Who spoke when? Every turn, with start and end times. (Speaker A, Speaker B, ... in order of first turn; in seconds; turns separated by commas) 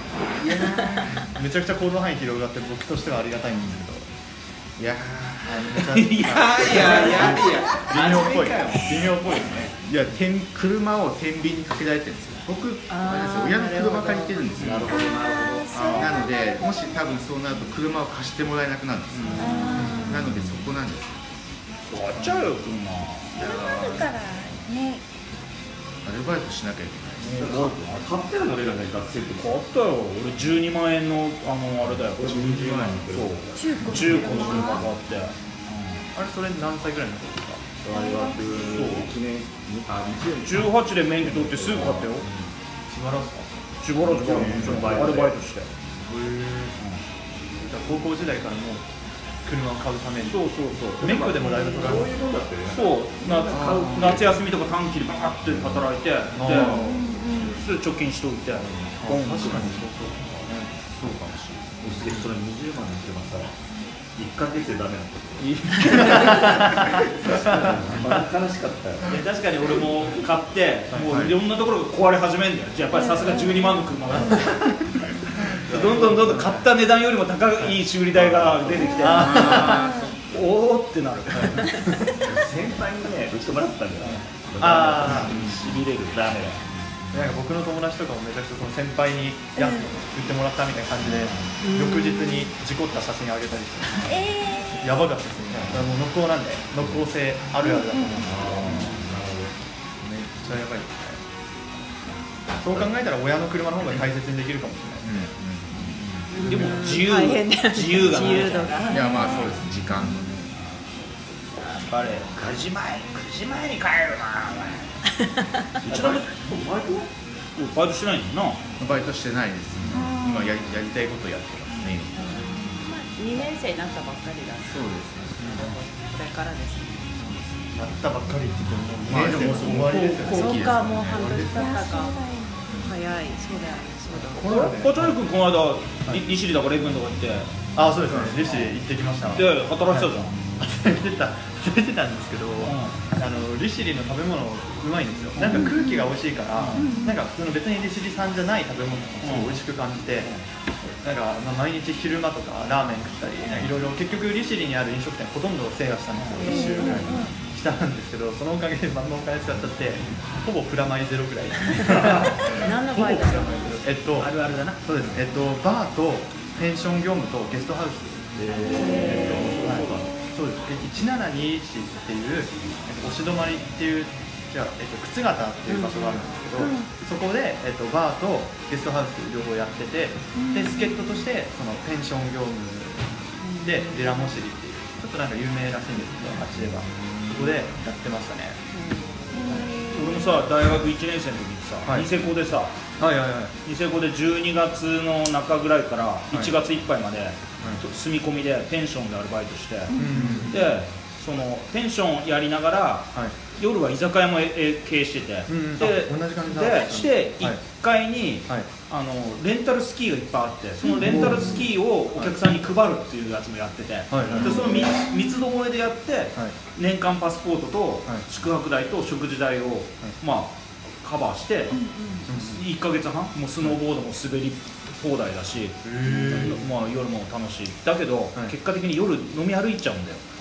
Speaker A: 0.5-1.2, Speaker B: 1.2-4.1, Speaker A: 4.8-5.8, Speaker B: 5.4-9.8, Speaker C: 5.8-9.2, Speaker A: 6.6-7.6, Speaker A: 9.8-15.0, Speaker D: 12.9-14.5, Speaker E: 14.6-16.1, Speaker F: 14.9-17.1, Speaker A: 15.7-21.2, Speaker C: 19.1-20.2, Speaker F: 19.4-20.3, Speaker D: 19.5-19.9, Speaker C: 21.9-23.5, Speaker F: 23.4-25.0, Speaker A: 23.4-24.1, Speaker A: 26.0-27.4, Speaker C: 27.2-28.2, Speaker E: 27.3-29.6, Speaker C: 29.4-36.0, Speaker E: 32.2-34.9, Speaker A: 32.6-32.9, Speaker F: 33.5-34.9, Speaker B: 36.1-37.6, Speaker E: 37.8-40.7, Speaker F: 37.9-39.1, Speaker C: 38.6-39.1, Speaker C: 40.4-42.3, Speaker E: 41.2-42.5, Speaker B: 42.9-43.6, Speaker C: 43.8-45.7, Speaker E: 44.0-45.4, Speaker B: 47.6-48.9, Speaker B: 49.5-50.4, Speaker C: 50.2-51.3, Speaker E: 51.0-54.4, Speaker B: 51.0-52.1, Speaker C: 52.7-59.8, Speaker A: 53.5-54.2, Speaker B: 56.3-57.1, Speaker A: 56.5-56.9, Speaker F: 56.7-57.6, Speaker B: 59.0-60.7, Speaker A: 60.9-62.1, Speaker E: 61.8-63.6, Speaker E: 64.2-69.2, Speaker C: 65.4-66.8, Speaker B: 65.9-66.9, Speaker B: 67.4-68.2, Speaker C: 69.1-74.8, Speaker B: 70.9-71.3, Speaker F: 72.9-73.9, Speaker B: 74.3-74.5, Speaker B: 75.4-76.7, Speaker C: 75.5-81.7, Speaker B: 78.3-79.9, Speaker F: 78.8-80.1, Speaker A: 79.1-80.2, Speaker B: 81.3-82.0, Speaker E: 82.2-86.6, Speaker C: 84.0-84.2, Speaker B: 84.6-85.3, Speaker C: 84.8-86.8, Speaker B: 87.1-94.2, Speaker F: 89.6-89.9, Speaker D: 91.6-92.5, Speaker F: 94.0-94.9, Speaker B: 94.7-99.0, Speaker F: 97.6-98.2, Speaker E: 98.2-99.6, Speaker B: 100.3-101.2, Speaker B: 102.6-105.1, Speaker A: 105.0-106.8, Speaker C: 106.0-108.9, Speaker D: 106.3-109.3, Speaker A: 108.9-110.5, Speaker F: 108.9-110.2, Speaker C: 111.6-114.9, Speaker C: 115.8-116.6, Speaker E: 115.9-117.1, Speaker A: 115.9-116.1, Speaker C: 117.6-118.6, Speaker A: 118.8-122.7, Speaker F: 119.9-120.6, Speaker D: 122.2-127.1, Speaker F: 122.4-122.8, Speaker A: 124.6-125.8, Speaker A: 127.2-127.6, Speaker B: 127.7-130.7, Speaker A: 129.1-131.5, Speaker C: 129.1-130.5, Speaker D: 129.6-132.2, Speaker F: 131.3-132.8, Speaker D: 132.8-134.6, Speaker B: 134.1-135.2, Speaker C: 134.4-137.5, Speaker B: 137.8-150.3, Speaker C: 139.3-140.4, Speaker C: 142.6-143.0, Speaker C: 145.4-145.8, Speaker F: 145.5-146.1, Speaker C: 146.6-146.9, Speaker F: 146.8-147.2, Speaker C: 149.2-149.6, Speaker B: 151.0-188.6, Speaker C: 156.2-157.3, Speaker F: 156.4-157.3, Speaker D: 156.5-157.1, Speaker D: 161.9-163.9, Speaker C: 164.2-164.8, Speaker E: 168.3-170.2, Speaker D: 168.7-169.7, Speaker D: 175.7-176.8, Speaker F: 176.6-176.9, Speaker F: 180.3-181.1, Speaker D: 183.4-184.4, Speaker D: 188.7-189.7, Speaker F: 189.3-190.4, Speaker C: 189.8-192.8, Speaker B: 191.9-192.1, Speaker B: 193.0-193.5, Speaker C: 193.6-230.2, Speaker F: 199.9-200.3, Speaker B: 200.0-200.6, Speaker B: 205.5-207.6, Speaker B: 210.9-212.3, Speaker B: 214.1-214.7, Speaker F: 214.4-215.4, Speaker F: 221.7-222.3, Speaker B: 222.3-222.6, Speaker B: 225.8-226.6